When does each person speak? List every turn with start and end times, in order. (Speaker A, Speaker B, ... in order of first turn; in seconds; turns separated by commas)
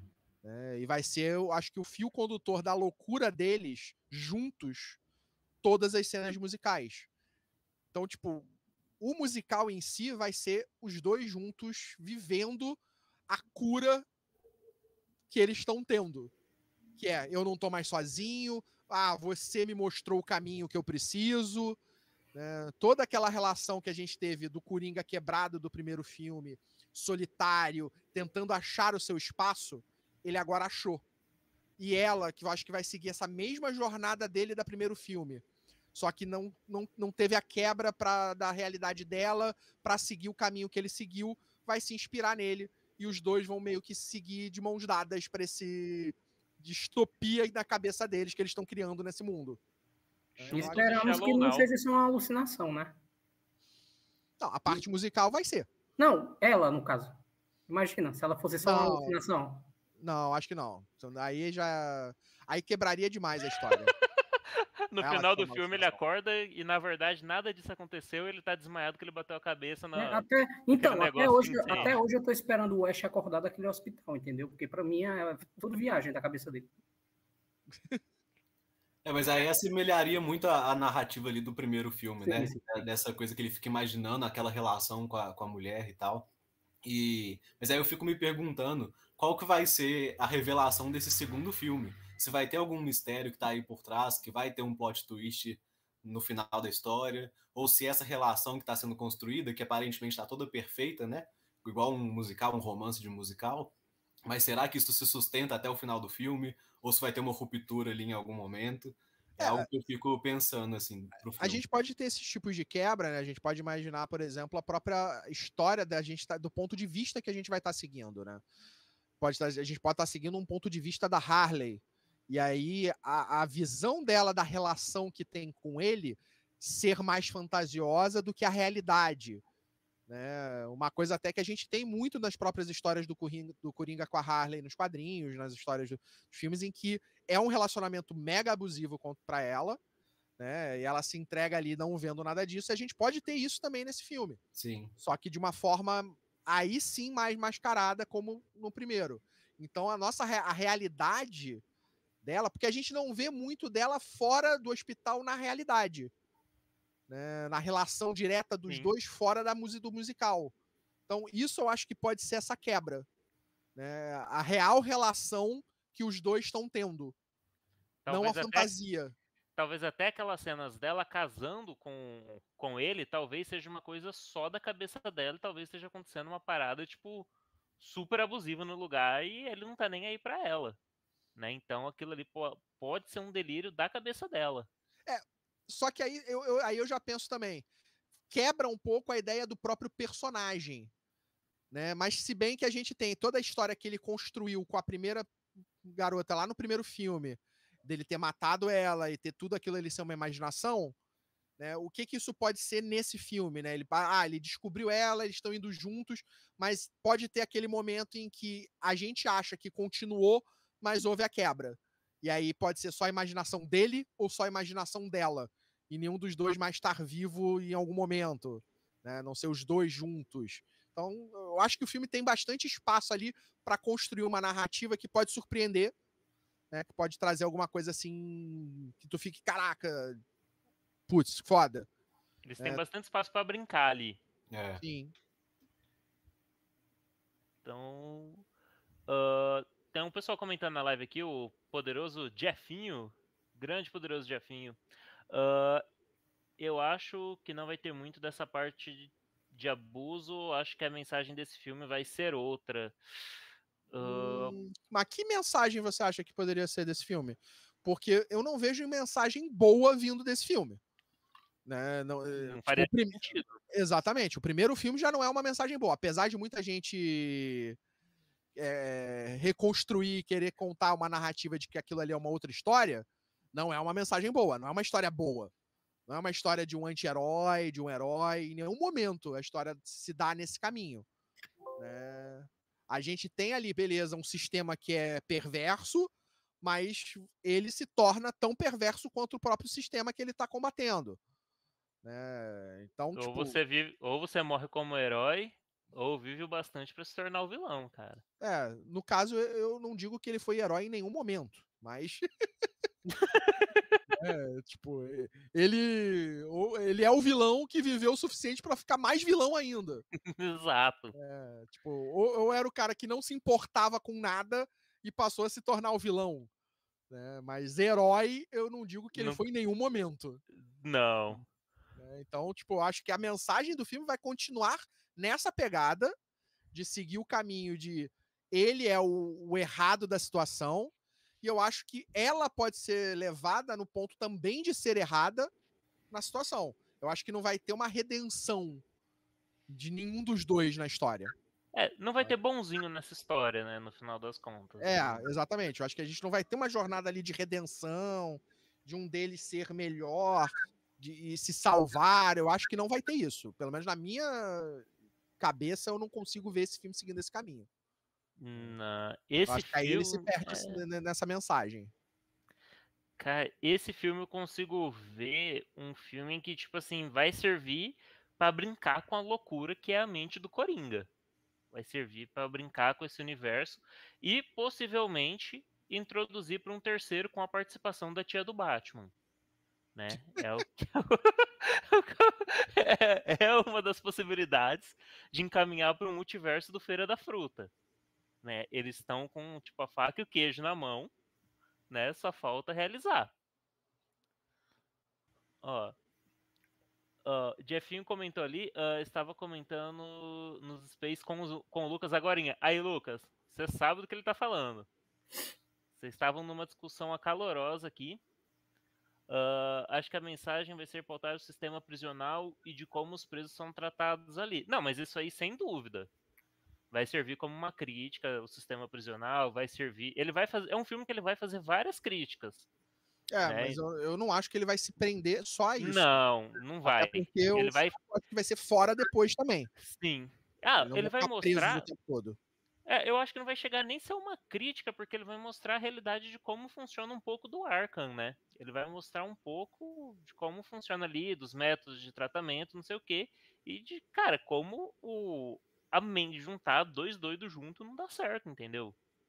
Speaker A: 0.4-5.0, Speaker A: 5.6-7.1, Speaker A: 7.9-14.1, Speaker A: 15.3-16.3, Speaker A: 17.0-21.8, Speaker A: 22.3-31.0, Speaker A: 31.8-49.6, Speaker B: 50.4-51.7, Speaker A: 50.4-51.2, Speaker C: 50.5-53.0, Speaker A: 54.4-55.7, Speaker C: 56.0-59.7, Speaker A: 58.6-59.2, Speaker A: 60.0-63.9, Speaker B: 64.9-72.0, Speaker A: 65.0-66.0, Speaker C: 69.9-76.7, Speaker A: 71.7-71.9, Speaker D: 79.0-86.3, Speaker C: 82.2-82.8, Speaker D: 86.8-103.7, Speaker D: 104.2-111.6, Speaker A: 109.4-109.7, Speaker A: 111.4-118.4, Speaker A: 119.2-129.4, Speaker A: 130.1-139.8, Speaker A: 140.4-144.4, Speaker D: 144.5-144.9, Speaker A: 145.0-151.6, Speaker A: 152.2-156.1, Speaker A: 157.1-160.5, Speaker B: 158.7-158.9, Speaker A: 161.1-163.1, Speaker A: 163.7-167.1, Speaker B: 168.0-168.7, Speaker A: 168.1-169.1, Speaker B: 169.6-177.3, Speaker B: 177.8-180.8, Speaker B: 181.3-184.7, Speaker A: 185.1-187.7, Speaker A: 188.3-190.9, Speaker A: 191.7-195.3, Speaker A: 195.8-200.9, Speaker A: 201.6-225.9, Speaker A: 226.7-230.2, Speaker A: 231.1-231.9, Speaker B: 232.4-234.2, Speaker D: 234.5-234.8, Speaker A: 234.8-235.1, Speaker B: 237.6-238.4, Speaker B: 239.1-244.8, Speaker B: 245.3-245.8, Speaker B: 246.6-253.0, Speaker B: 253.9-254.6, Speaker A: 254.0-260.8, Speaker A: 261.6-267.8, Speaker B: 262.4-263.6, Speaker A: 268.5-275.5, Speaker A: 276.1-281.1, Speaker A: 281.8-291.2, Speaker A: 292.0-293.6, Speaker B: 293.1-298.2, Speaker A: 298.4-302.3, Speaker B: 303.2-304.0, Speaker A: 304.1-310.0, Speaker B: 310.2-311.1, Speaker A: 311.1-316.5, Speaker A: 317.1-320.4, Speaker B: 319.1-319.4, Speaker B: 320.5-321.4, Speaker A: 322.0-326.1, Speaker A: 326.7-335.5, Speaker A: 336.1-338.8, Speaker A: 339.7-341.3, Speaker B: 341.7-345.2, Speaker A: 344.8-354.9, Speaker A: 355.4-357.7, Speaker B: 358.4-360.8, Speaker A: 359.5-361.9, Speaker B: 363.2-371.1, Speaker B: 371.7-379.1, Speaker B: 379.9-387.7, Speaker B: 388.4-391.1, Speaker B: 391.9-393.3, Speaker B: 395.6-395.9, Speaker B: 397.2-404.9, Speaker B: 405.9-408.2, Speaker B: 409.3-416.1, Speaker B: 416.9-422.6, Speaker A: 423.3-426.1, Speaker B: 423.4-423.8, Speaker B: 425.8-427.9, Speaker A: 426.8-429.7, Speaker B: 429.8-431.9, Speaker A: 430.8-432.4, Speaker B: 432.9-448.9